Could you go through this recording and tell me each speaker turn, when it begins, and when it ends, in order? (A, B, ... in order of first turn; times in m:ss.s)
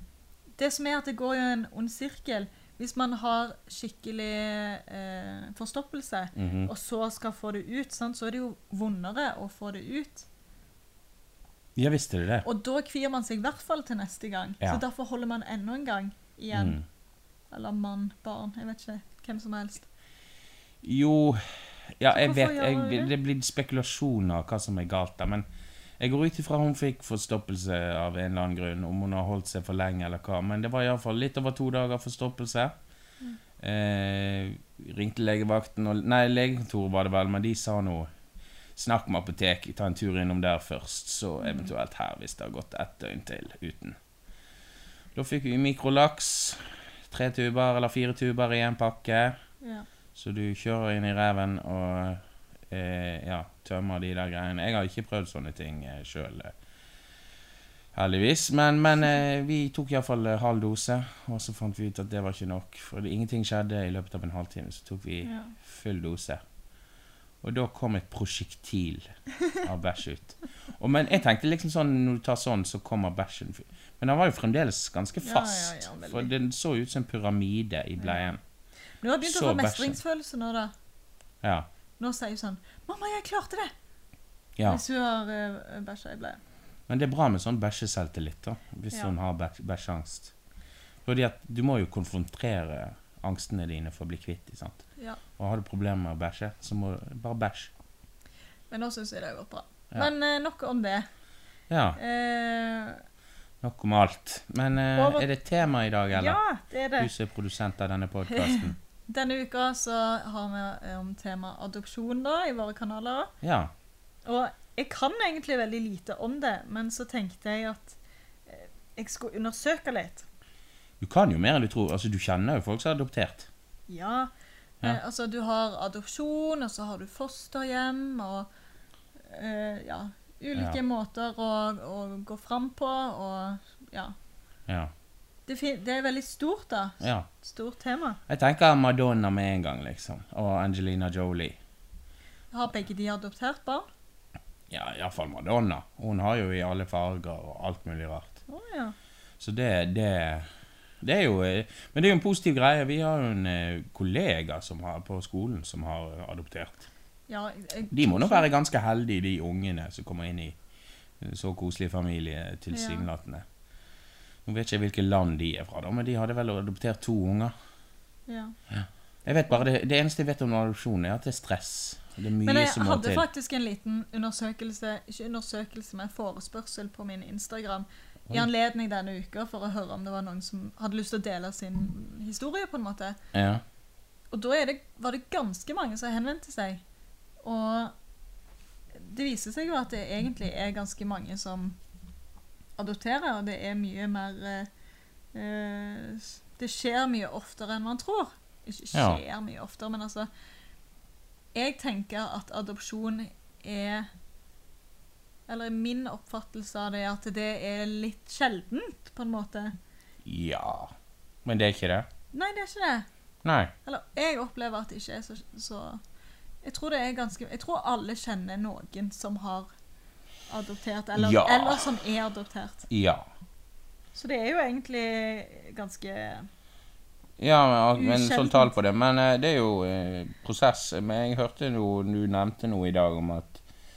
0:00.6-0:10.3 A
0:06.4-0:06.7 B
0:11.8-0:12.4 B
0:12.4-0:16.8 A
0:16.5-0:16.8 B
0:17.5-0:19.9 A
0:20.8-0:25.4 B
0:22.1-0:23.1 A
0:26.0-0:32.7 B
0:33.6-0:38.1 B
0:38.8-0:44.0 B
0:41.4-0:41.7 A
0:45.1-0:49.4 B
0:50.1-0:56.5 B
0:57.9-1:06.4 B
1:05.2-1:05.5 A
1:07.4-1:09.1 B
1:09.6-1:18.4 B
1:15.2-1:16.3 A
1:18.0-1:18.3 A
1:19.0-1:20.7 A
1:19.2-1:20.0 B
1:21.4-1:21.7 B
1:22.0-1:23.7 A
1:24.6-1:26.4 A
1:26.9-1:30.3 B
1:31.0-1:34.8 B
1:35.4-1:37.7 B
1:38.7-1:41.1 A
1:41.7-1:42.0 B
1:42.0-1:43.0 A
1:43.6-1:46.4 B
1:44.9-1:45.2 A
1:46.1-1:47.1 A
1:47.0-1:48.8 B
1:48.3-1:53.3 A
1:53.4-1:53.7 B
1:54.2-2:00.2 A
2:01.0-2:03.5 B
2:03.9-2:04.3 A
2:04.8-2:08.5 A
2:09.3-2:14.1 A
2:14.7-2:14.9 B
2:15.5-2:18.2 A
2:17.0-2:17.3 B
2:18.3-2:21.6 B
2:22.5-2:23.9 A
2:24.7-2:28.4 B
2:28.5-2:28.9 A
2:29.4-2:30.5 B
2:31.0-2:36.9 B
2:37.3-2:38.5 A
2:37.9-2:40.6 B
2:41.2-2:43.4 B
2:42.7-2:43.0 A
2:44.4-2:47.5 B
2:48.3-2:48.6 A
2:48.7-2:53.2 B
2:52.4-3:03.2 A
3:03.3-3:03.6 B
3:04.3-3:06.8 A
3:07.4-3:07.9 A
3:09.0-3:11.8 A
3:12.8-3:14.7 A
3:15.3-3:20.3 A
3:18.9-3:19.2 B
3:21.5-3:24.1 A
3:25.5-3:29.8 A
3:30.2-3:30.9 B
3:31.4-3:32.1 B
3:32.3-3:33.1 A
3:33.4-3:33.7 B
3:33.8-3:36.0 A
3:36.6-3:39.7 A
3:40.5-3:42.9 A
3:41.2-3:42.0 B
3:42.9-3:43.3 B
3:44.1-3:46.5 A
3:47.4-3:53.6 B
3:48.0-3:48.7 A